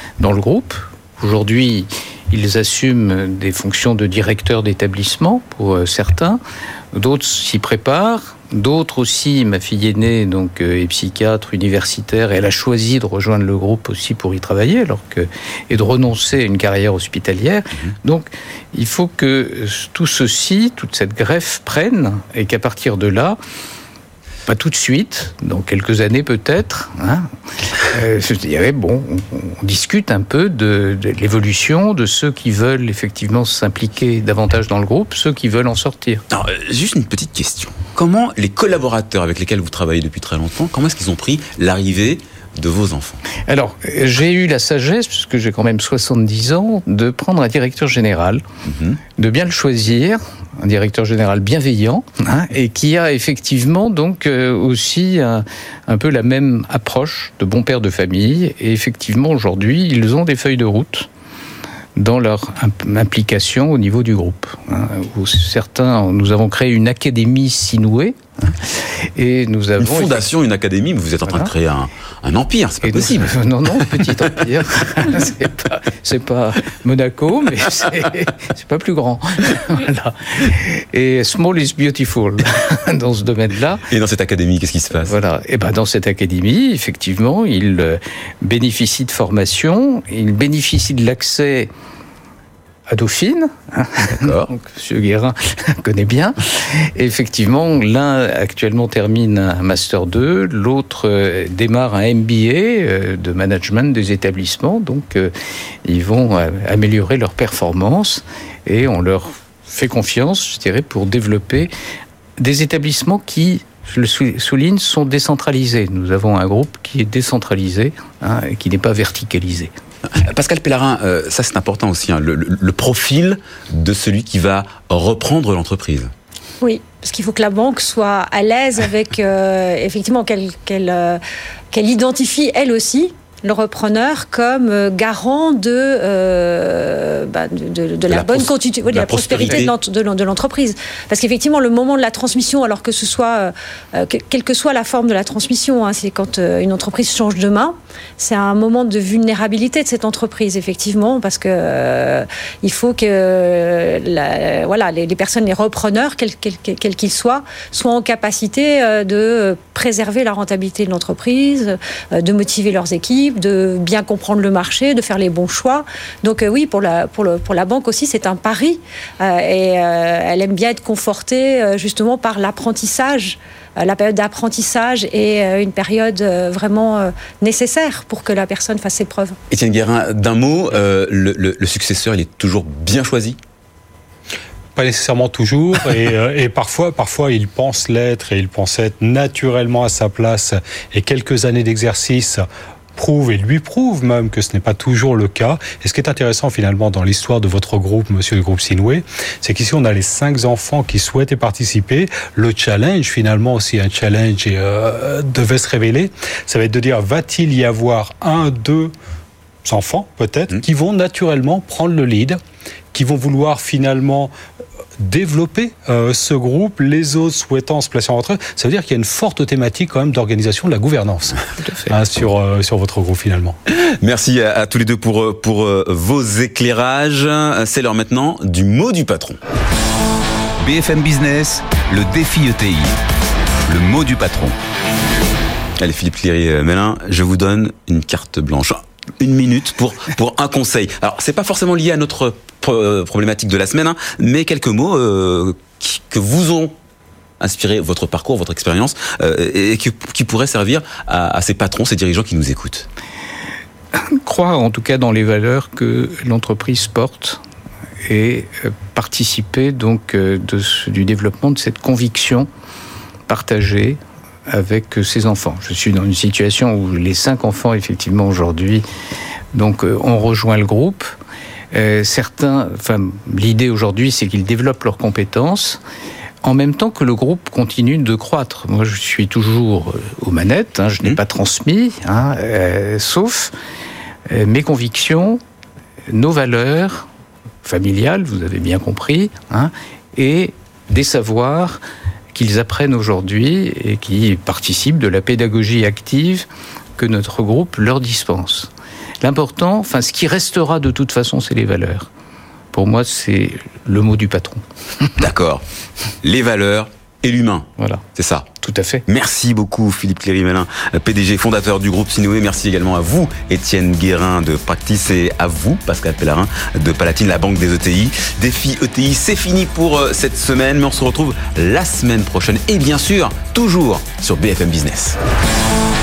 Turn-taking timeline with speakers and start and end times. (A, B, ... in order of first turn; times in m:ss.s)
0:00.2-0:06.4 A
0:06.9-0:23.4 A
0:24.5-0:27.3 A
0:27.8-0:36.2 A
0:36.3-0:43.2 B
0:43.5-0:48.4 A
0:48.6-0:49.0 B
0:49.2-1:01.1 A
1:02.0-1:10.2 A
1:09.8-1:14.3 B
1:12.8-1:23.8 A
1:23.9-1:25.1 B
1:25.0-1:31.7 A
1:32.9-1:45.3 A
1:34.1-1:34.5 B
1:45.8-1:51.7 A
1:52.4-1:59.7 A
2:00.1-2:06.1 B
2:06.6-2:11.2 C
2:11.7-2:59.4 C
2:18.1-2:19.7 B
2:59.5-3:03.4 B
3:04.7-3:28.9 D
3:29.6-3:32.4 D
3:32.9-3:34.3 D
3:35.0-3:43.6 D
3:41.6-3:41.9 A
3:43.7-3:49.4 B
3:50.6-3:52.9 B
3:53.7-3:54.6 B
3:55.8-4:06.7 B
4:07.4-4:12.9 B
4:13.9-4:17.4 A
4:18.0-4:22.5 A
4:23.3-4:28.8 A
4:29.5-4:31.1 A
4:31.7-4:35.8 A
4:36.4-4:43.5 A
4:44.3-4:45.4 A
4:46.1-4:47.1 A
4:47.6-4:51.8 A
4:52.3-4:58.7 A
4:59.2-5:02.1 A
5:02.7-5:05.1 A
5:05.2-5:05.6 B
5:06.2-5:08.5 B
5:07.8-5:08.0 A
5:08.6-5:09.0 A
5:09.1-5:25.2 B